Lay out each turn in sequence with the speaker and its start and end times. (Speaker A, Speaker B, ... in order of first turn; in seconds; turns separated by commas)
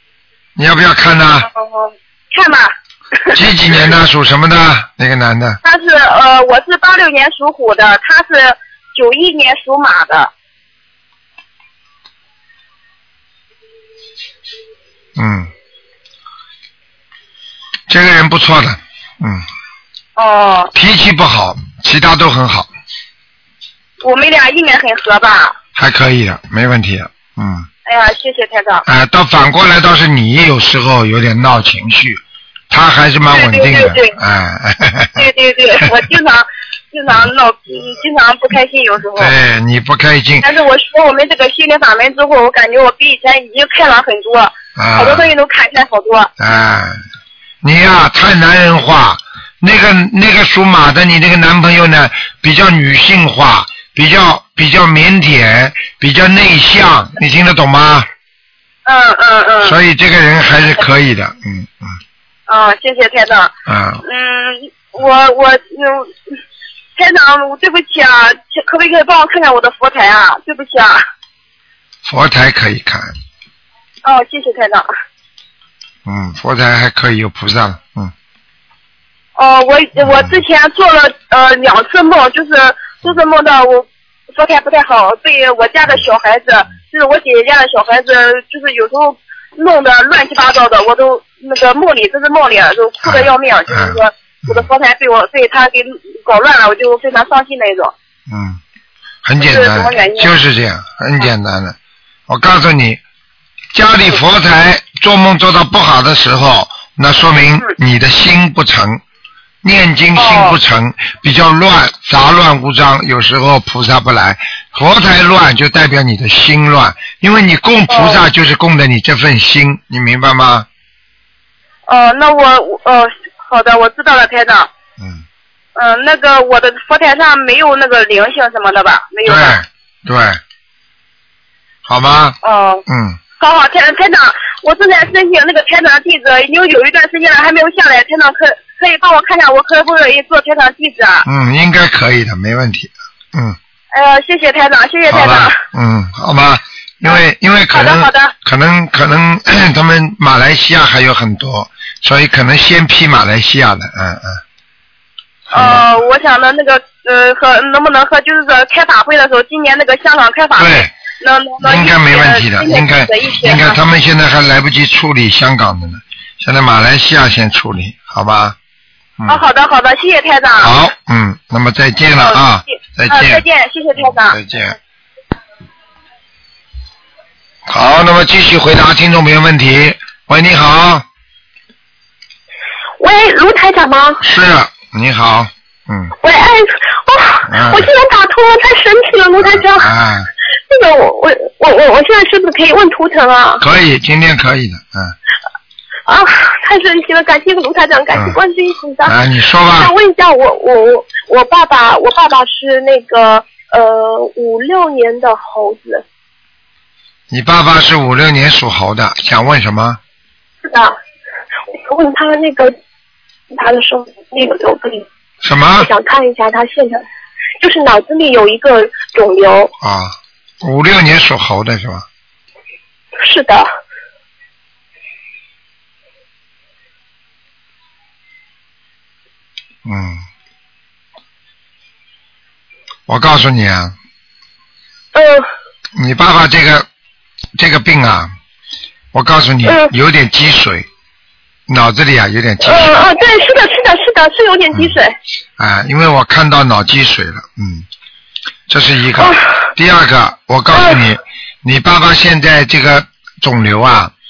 Speaker A: 0.6-1.5, Speaker B: 1.5-2.7, Speaker A: 3.3-5.6, Speaker B: 5.6-10.3, Speaker A: 15.2-15.5, Speaker A: 17.9-19.4, Speaker B: 20.2-20.7, Speaker A: 20.7-22.7, Speaker B: 24.0-25.6, Speaker A: 25.8-27.7, Speaker B: 27.9-28.9, Speaker A: 28.9-35.3, Speaker B: 33.3-34.1, Speaker B: 35.2-39.3, Speaker A: 39.2-40.5, Speaker B: 40.4-46.3, Speaker A: 44.8-45.3, Speaker A: 46.4-47.0, Speaker A: 47.6-58.1, Speaker B: 58.9-59.8, Speaker A: 59.6-62.0, Speaker B: 62.5-63.5, Speaker A: 63.7-64.0, Speaker B: 64.0-66.1, Speaker B: 67.0-71.0, Speaker A: 72.1-73.1, Speaker B: 74.0-74.9, Speaker A: 76.0-78.1, Speaker B: 79.4-97.9, Speaker A: 80.0-80.4, Speaker A: 93.0-94.7, Speaker A: 98.3-98.6, Speaker A: 99.2-101.8, Speaker B: 99.4-100.3, Speaker A: 102.3-103.0, Speaker A: 103.7-109.0, Speaker A: 109.6-120.7, Speaker B: 110.2-110.6, Speaker B: 117.9-118.2, Speaker B: 121.9-124.7, Speaker A: 125.0-125.2, Speaker B: 125.8-129.6, Speaker A: 129.2-130.4, Speaker A: 131.8-132.4, Speaker B: 132.4-132.8, Speaker A: 132.9-133.2, Speaker B: 133.4-141.2, Speaker A: 141.2-143.6, Speaker B: 143.9-145.6, Speaker A: 145.1-154.4, Speaker B: 147.7-148.3, Speaker A: 155.5-155.8, Speaker B: 155.5-163.8, Speaker A: 160.6-160.9, Speaker A: 161.6-168.6, Speaker A: 169.2-169.4, Speaker B: 169.3-170.7, Speaker A: 170.6-173.4, Speaker B: 172.2-174.4, Speaker A: 174.0-174.8, Speaker A: 177.7-181.1, Speaker C: 183.0-184.2, Speaker A: 184.2-186.1, Speaker C: 186.2-189.9, Speaker A: 187.5-187.9, Speaker A: 189.4-190.3, Speaker C: 190.7-193.6, Speaker A: 193.6-195.2, Speaker C: 196.1-199.2, Speaker A: 199.1-199.9, Speaker C: 199.8-206.0, Speaker A: 207.3-210.0, Speaker C: 210.7-211.0, Speaker C: 211.7-212.7, Speaker C: 213.5-215.1, Speaker A: 215.4-215.9, Speaker C: 215.8-217.0, Speaker C: 217.6-219.7, Speaker A: 219.8-222.1, Speaker C: 223.2-223.7, Speaker A: 229.8-230.2, Speaker A: 233.1-233.9, Speaker C: 235.1-235.5, Speaker A: 236.0-236.9, Speaker A: 237.6-238.3, Speaker A: 239.1-240.9, Speaker A: 241.7-243.1, Speaker C: 242.6-245.2, Speaker A: 245.6-247.9, Speaker A: 248.7-254.1, Speaker C: 249.2-249.5, Speaker C: 250.7-251.0